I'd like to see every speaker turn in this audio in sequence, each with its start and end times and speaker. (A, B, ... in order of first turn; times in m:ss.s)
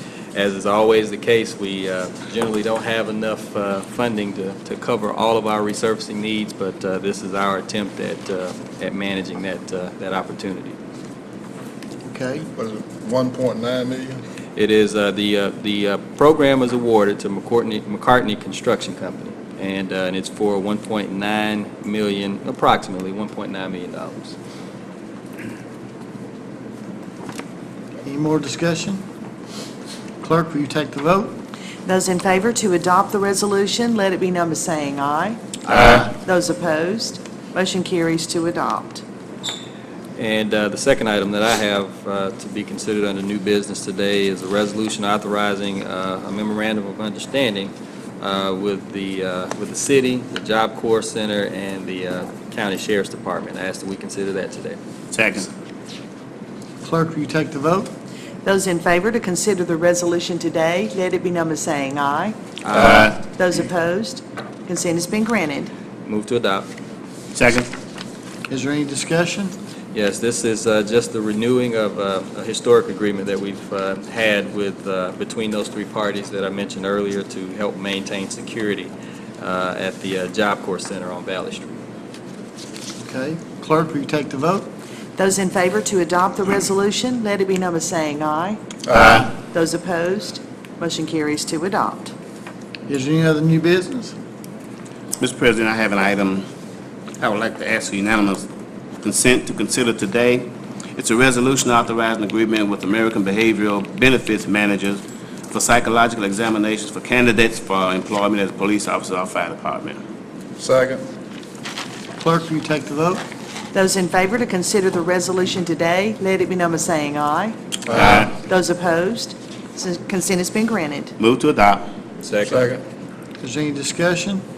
0:00.3-0:10.8 A
0:12.1-0:12.4 B
0:12.5-0:14.2 C
0:14.6-0:24.4 A
0:28.0-0:29.0 B
0:30.2-0:31.4 B
0:31.8-0:39.0 D
0:40.2-0:54.8 A
0:55.1-0:55.5 E
0:56.8-0:57.9 B
0:58.4-1:02.4 D
1:02.7-1:03.1 E
1:02.8-1:03.1 A
1:03.2-1:05.7 D
1:06.0-1:06.7 A
1:07.3-1:07.7 E
1:08.5-1:09.5 B
1:09.9-1:21.8 A
1:23.0-1:24.7 B
1:25.2-1:28.6 D
1:29.0-1:29.3 E
1:29.2-1:32.1 D
1:32.9-1:34.1 B
1:35.2-1:36.4 E
1:37.2-1:38.4 E
1:39.0-1:50.0 E
1:50.6-1:51.0 C
1:52.2-1:53.2 B
1:53.7-2:01.1 D
1:57.9-1:58.2 C
1:58.0-1:58.3 E
2:01.2-2:01.9 E
2:02.2-2:02.6 A
2:02.4-2:02.8 C
2:03.4-2:04.4 B